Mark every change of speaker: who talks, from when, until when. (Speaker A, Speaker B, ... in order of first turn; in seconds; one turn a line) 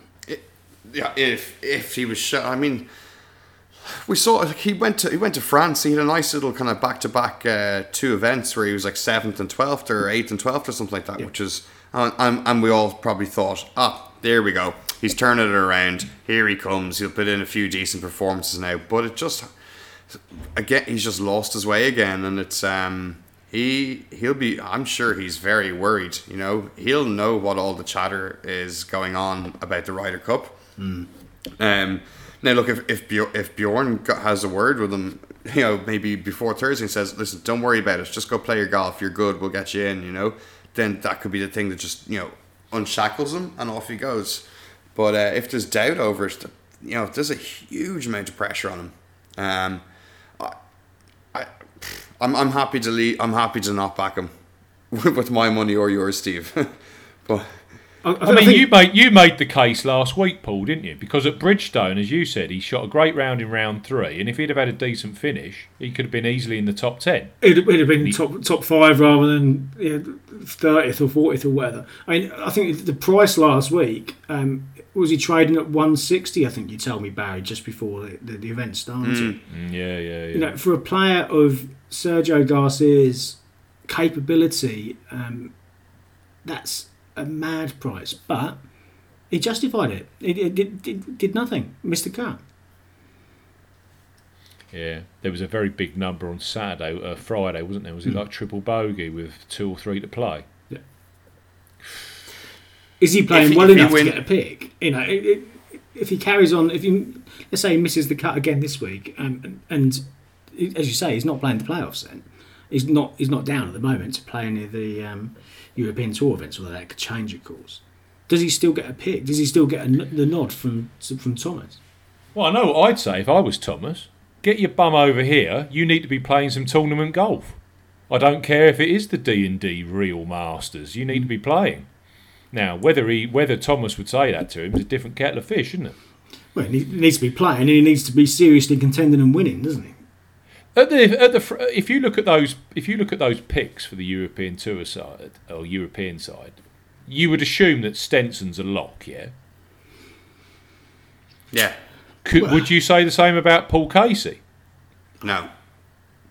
Speaker A: 0.3-2.9
Speaker A: 3.8-19.5
Speaker A: 20.4-30.6
Speaker B: 30.8-31.1
Speaker A: 31.6-49.8
Speaker A: 51.3-54.3
Speaker A: 54.9-57.6
Speaker B: 58.0-58.7
Speaker C: 58.2-67.4
Speaker B: 67.4-79.4
Speaker A: 79.0-79.4
Speaker C: 79.5-80.5
Speaker B: 80.3-85.5
Speaker B: 86.4-88.6
Speaker B: 89.3-92.4
Speaker C: 94.7-100.5
Speaker B: 103.0-121.8
Speaker A: 103.3-104.2
Speaker C: 122.3-127.6
Speaker C: 128.1-131.9
Speaker C: 132.5-135.9
Speaker B: 136.6-140.0
Speaker C: 140.7-146.6
Speaker C: 147.1-149.3
Speaker A: 151.5-151.8
Speaker C: 152.2-154.4
Speaker A: 155.2-155.5